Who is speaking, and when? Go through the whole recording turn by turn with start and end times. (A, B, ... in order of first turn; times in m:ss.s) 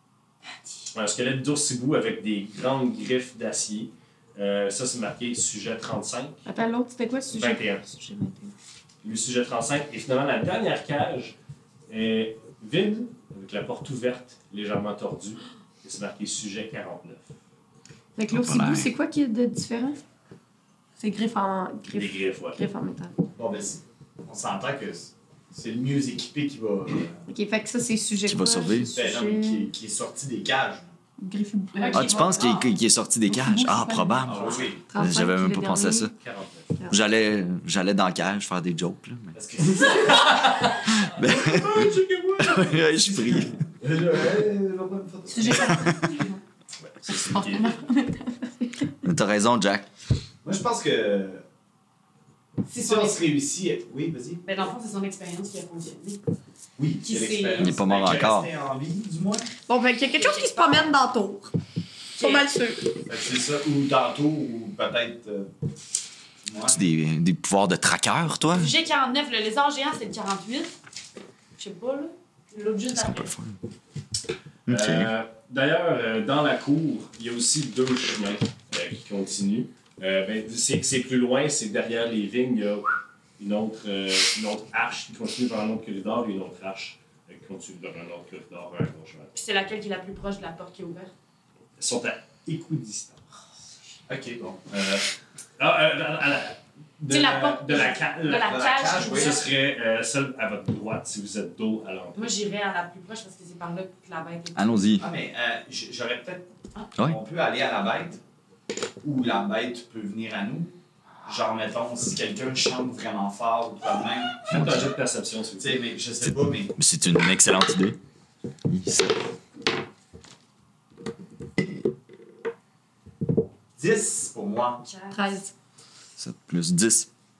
0:00.9-0:06.4 A
0:06.4-0:08.5 B
0:07.4-0:07.8 A
0:09.0-0:11.3 A
0:11.9-0:17.3 A
0:18.2-0:20.0 B
0:18.3-0:18.9 C
0:21.0-0:23.1 B
0:21.9-0:22.6 A
0:23.4-0:27.2 D
0:27.3-0:29.7 B
0:28.2-0:28.9 C
0:28.9-0:30.9 D
0:31.2-0:32.1 B
0:31.7-0:32.7 E
0:31.9-0:36.1 C
0:33.3-0:36.1 B
0:34.2-0:34.8 D
0:36.1-0:36.8 A
0:36.9-0:39.3 C
0:39.3-0:40.5 D
0:39.8-0:43.3 A
0:41.0-0:43.5 C
0:43.7-0:46.0 D
0:45.3-0:46.3 B
0:47.0-0:47.8 A
0:47.3-0:48.8 B
0:49.0-0:49.9 C
0:50.4-0:51.4 D
0:52.6-0:53.2 E
0:52.7-0:54.4 D
0:54.4-0:56.2 E
0:56.8-0:59.5 D
0:57.0-0:58.1 E
0:57.6-0:58.5 C
0:59.7-1:01.5 B
1:00.1-1:00.9 E
1:02.1-1:02.9 B
1:02.2-1:02.4 E
1:03.1-1:05.5 D
1:06.4-1:06.8 D
1:06.7-1:08.7 C
1:08.5-1:10.7 E
1:11.6-1:13.3 E
1:12.9-1:13.6 C
1:14.6-1:15.1 C
1:14.7-1:29.3 A
1:29.3-1:31.1 E
1:31.8-1:33.5 A
1:34.1-1:34.6 D
1:34.7-1:42.3 A
1:37.1-1:39.5 E
1:38.4-1:39.5 D
1:42.1-1:44.7 E
1:44.5-1:45.0 C
1:45.0-1:46.4 D
1:47.0-1:48.2 D
1:49.0-1:50.7 D
1:51.2-1:54.6 D
1:54.4-1:55.8 A
1:54.5-1:54.9 C
1:55.6-1:56.7 D
1:56.8-1:58.0 C
1:58.7-1:59.2 C
2:03.8-2:04.8 D
2:04.8-2:05.4 E
2:05.1-2:05.5 B
2:06.2-2:07.1 C